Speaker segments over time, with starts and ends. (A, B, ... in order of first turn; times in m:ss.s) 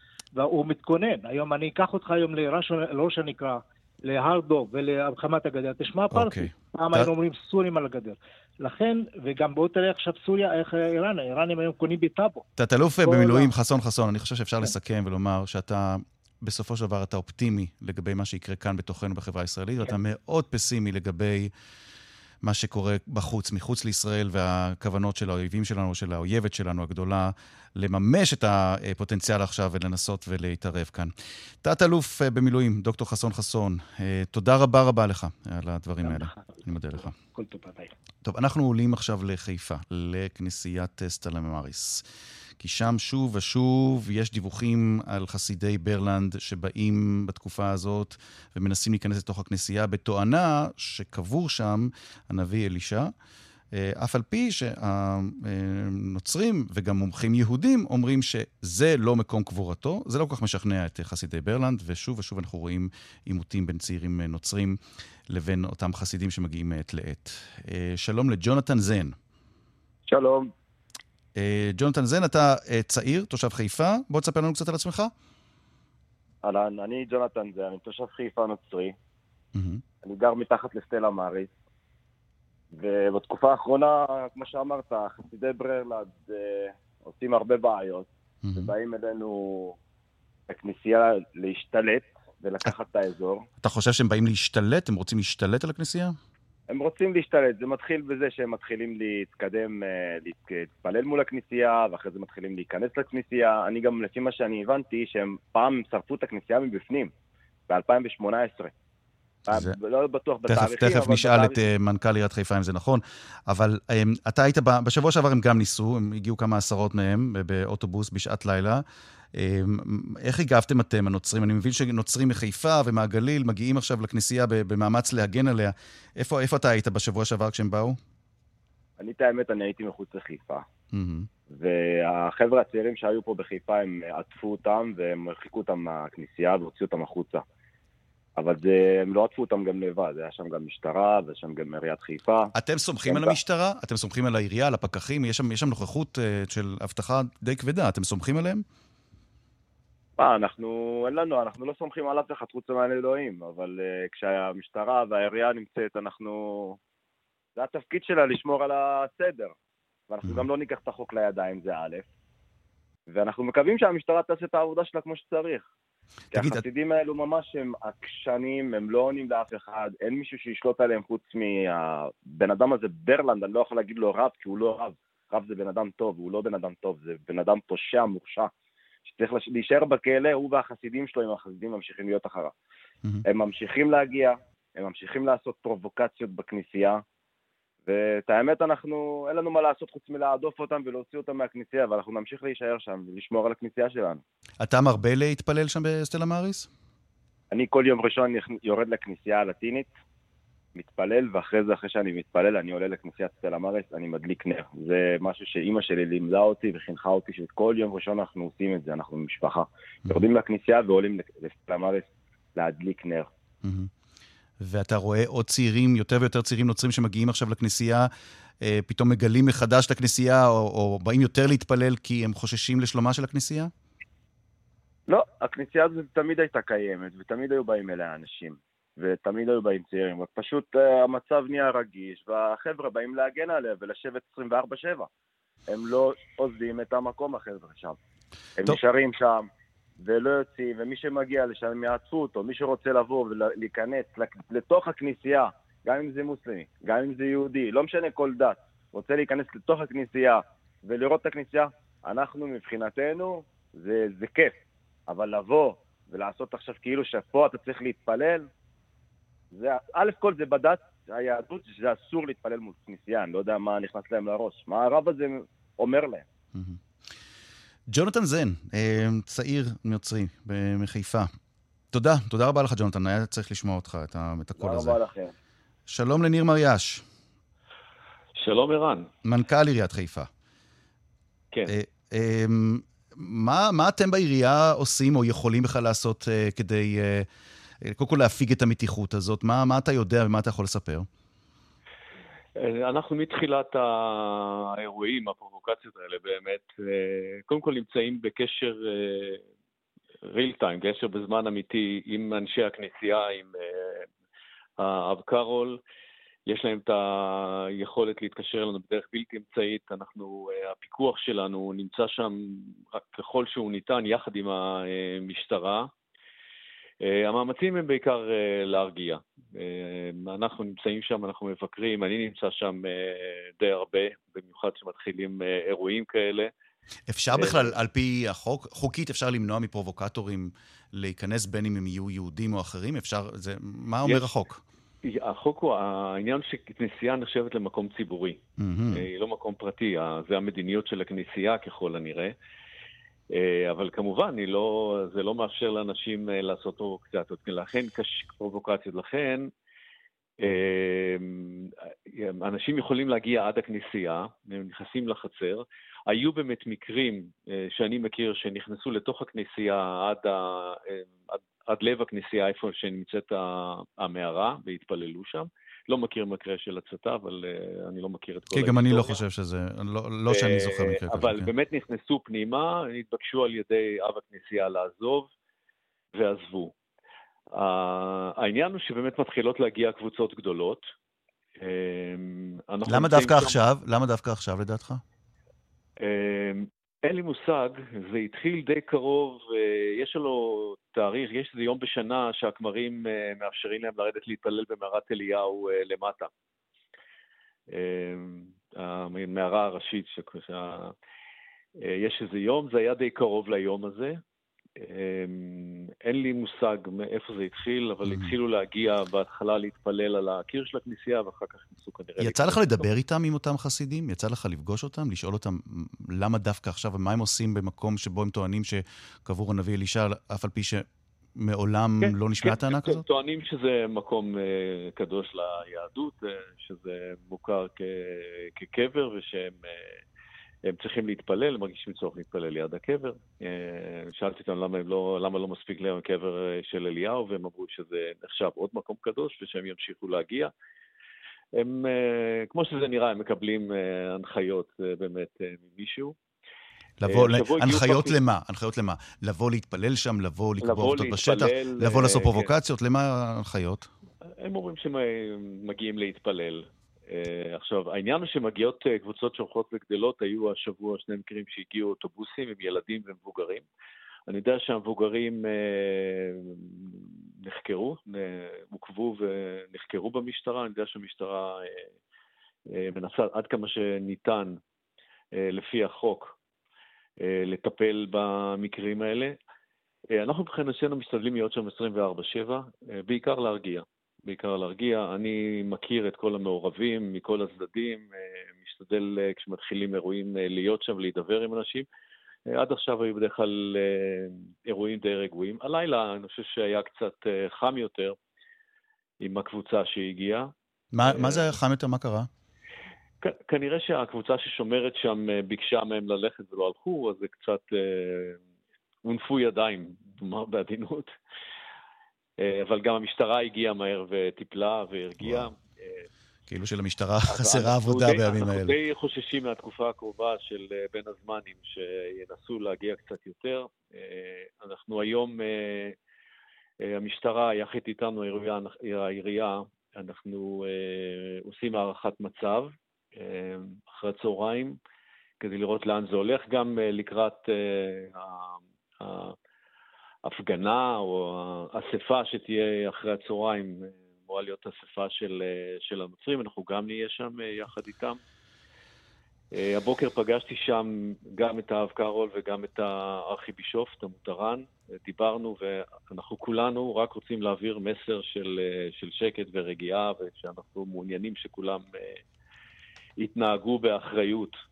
0:00.3-0:12.4 A
0:06.1-0:07.1 B
0:12.6-0:21.5 B
0:13.0-0:13.5 A
0:22.4-0:37.2 B
0:36.0-0:37.9 A
0:38.2-0:42.0 B
0:42.6-0:53.1 B
0:53.7-1:04.8 B
1:05.3-1:09.2 B
1:10.1-1:10.5 C
1:11.4-1:15.1 B
1:16.4-1:18.9 C
1:19.6-1:19.8 B
1:20.0-1:21.5 C
1:22.7-1:29.8 C
1:28.4-1:28.7 B
1:30.5-1:33.4 C
1:33.6-1:36.1 B
1:36.7-1:47.1 C
1:47.7-1:48.7 C
1:49.4-1:51.6 C
1:50.5-1:58.8 B
1:59.3-2:08.0 B
2:09.0-2:10.6 C
2:10.9-2:11.3 B
2:11.5-2:17.4 C
2:18.4-2:22.5 C
2:22.5-2:28.6 B
2:23.0-2:23.3 C
2:30.2-2:36.8 C
2:37.6-2:39.5 C
2:40.1-2:42.0 C
2:43.1-2:45.6 C
2:46.3-2:46.6 B
2:46.3-2:58.5 C
2:59.1-3:02.5 C
3:03.2-3:07.0 C
3:07.8-3:14.2 C
3:14.6-3:16.7 B
3:17.5-3:19.9 C
3:20.8-3:33.3 C
3:33.6-3:33.9 B
3:34.6-3:38.1 B
3:38.6-3:43.7 B
3:45.1-3:55.1 C
3:55.7-3:58.0 C
3:58.6-3:59.5 C
4:00.0-4:18.5 C
4:19.5-4:26.2 C
4:26.5-4:26.8 B
4:27.9-4:31.3 B
4:31.9-4:35.0 B
4:34.6-4:35.3 C
4:35.9-4:37.0 B
4:38.4-4:39.1 D
4:39.2-4:40.3 B
4:41.7-4:47.3 B
4:47.8-4:51.1 B
4:52.5-4:59.4 D
5:00.2-5:04.1 D
5:04.8-5:05.8 D
5:06.4-5:15.9 D
5:17.0-5:26.5 D
5:27.1-5:34.6 B
5:27.3-5:27.7 D
5:34.0-5:34.3 D
5:35.0-5:38.4 D
5:38.6-5:39.0 B
5:38.9-5:42.3 D
5:43.3-5:49.5 D
5:50.4-6:09.2 D
6:08.5-6:11.5 B
6:10.3-6:15.3 D
6:16.1-6:16.7 D
6:17.5-6:20.9 D
6:21.6-6:23.6 D
6:22.8-6:25.0 B
6:26.0-6:36.3 D
6:37.7-6:40.9 D
6:41.8-6:44.2 D
6:44.8-6:52.9 D
6:48.0-6:48.3 B
6:52.2-7:03.0 B
7:02.0-7:10.0 D
7:10.6-7:20.5 D
7:21.5-7:26.1 D
7:27.0-7:33.9 B
7:27.0-7:28.2 D
7:30.6-7:32.5 D
7:34.2-7:43.6 D
7:44.3-7:51.9 D
7:52.7-7:54.6 D
7:55.3-7:56.3 D
7:57.2-7:59.4 D
8:00.1-8:11.9 D
8:12.5-8:18.2 D
8:19.2-8:20.5 D
8:20.9-8:22.3 B
8:21.0-8:21.5 D
8:23.2-8:28.4 D
8:29.0-8:31.1 D
8:32.4-8:36.1 D
8:35.2-8:35.5 B
8:36.5-8:38.8 B
8:37.3-8:46.0 D
8:46.8-8:54.8 D
8:55.4-8:59.4 D
9:00.2-9:08.2 D
9:09.5-9:22.2 D
9:23.2-9:24.6 D